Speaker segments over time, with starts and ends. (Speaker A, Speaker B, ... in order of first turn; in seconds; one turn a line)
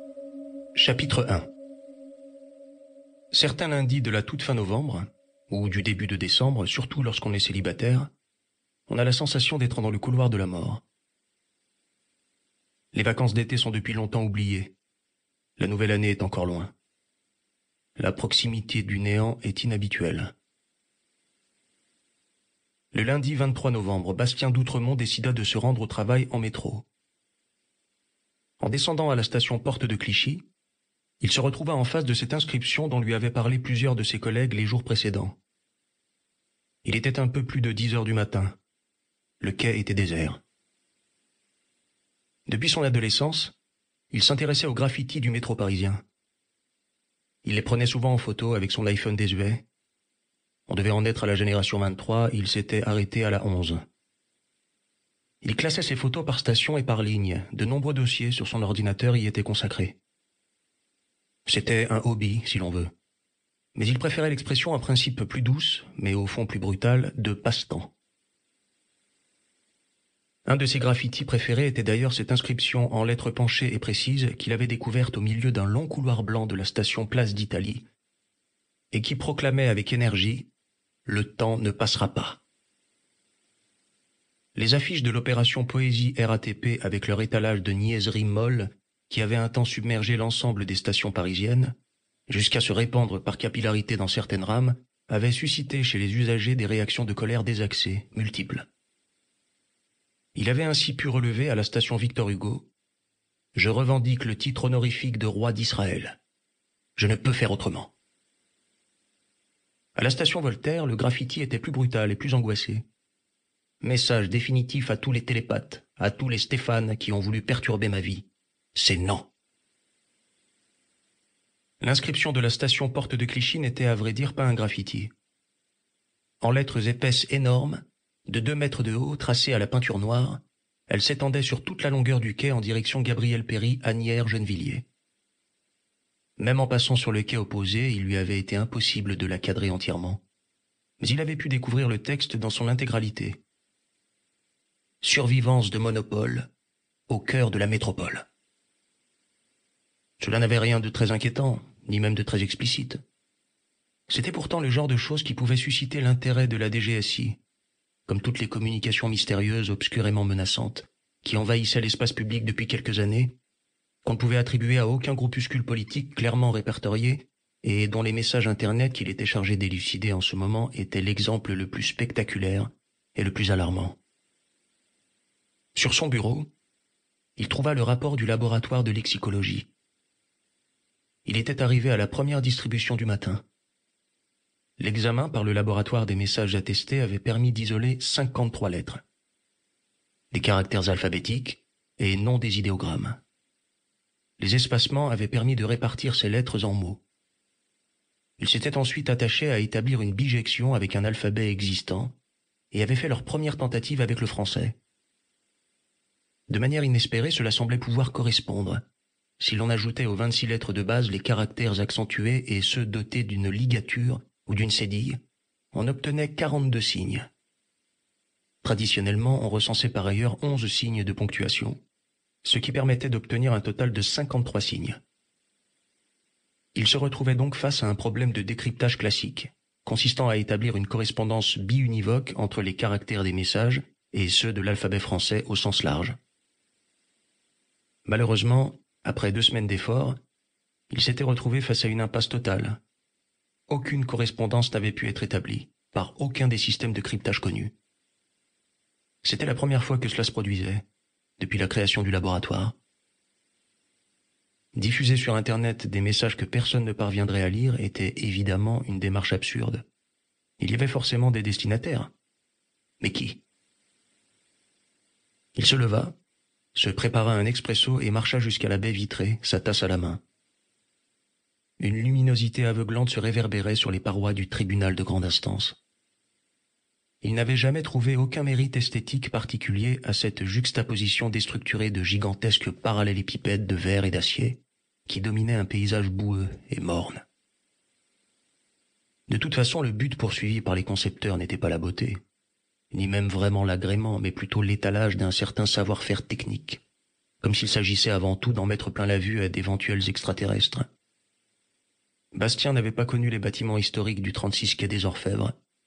Speaker A: 0.8-1.5
Speaker A: 3.3-8.1
Speaker A: 8.9-10.8
Speaker A: 12.9-14.8
Speaker A: 15.6-16.7
Speaker A: 18.0-20.3
Speaker A: 22.9-26.9
Speaker A: 28.6-30.4
Speaker A: 31.2-35.4
Speaker A: 36.8-38.6
Speaker A: 39.4-40.4
Speaker A: 42.5-43.5
Speaker A: 44.1-46.0
Speaker A: 47.4-49.6
Speaker A: 50.7-53.8
Speaker A: 55.4-60.0
Speaker A: 61.5-62.9
Speaker A: 63.8-67.9
Speaker A: 70.5-77.8
Speaker A: 78.9-80.5
Speaker A: 81.1-82.4
Speaker A: 84.6-91.8
Speaker A: 92.3-98.7
Speaker A: 100.3-102.7
Speaker A: 103.5-106.2
Speaker A: 107.0-107.9
Speaker A: 110.0-112.9
Speaker A: 113.8-119.3
Speaker A: 121.8-125.1
Speaker A: 126.4-134.9
Speaker A: 136.4-140.2
Speaker A: 141.0-143.4
Speaker A: 145.0-146.5
Speaker A: 147.1-148.3
Speaker A: 150.2-153.0
Speaker A: 154.1-157.4
Speaker A: 158.1-163.3
Speaker A: 164.0-174.0
Speaker A: 175.8-176.5
Speaker A: 177.4-179.7
Speaker A: 181.2-183.4
Speaker A: 184.8-189.0
Speaker A: 190.3-193.2
Speaker A: 194.4-197.0
Speaker A: 198.4-202.2
Speaker A: 202.7-204.8
Speaker A: 206.5-208.8
Speaker A: 209.4-215.2
Speaker A: 215.7-217.3
Speaker A: 218.6-221.8
Speaker A: 222.4-225.0
Speaker A: 226.8-236.2
Speaker A: 238.1-240.2
Speaker A: 240.9-242.8
Speaker A: 243.7-247.7
Speaker A: 249.2-250.8
Speaker A: 251.4-252.8
Speaker A: 254.7-259.8
Speaker A: 260.6-262.1
Speaker A: 263.0-263.4
Speaker A: 265.6-266.1
Speaker A: 266.8-270.2
Speaker A: 271.8-275.8
Speaker A: 277.2-287.2
Speaker A: 289.3-292.2
Speaker A: 292.9-296.8
Speaker A: 297.4-300.9
Speaker A: 302.3-305.6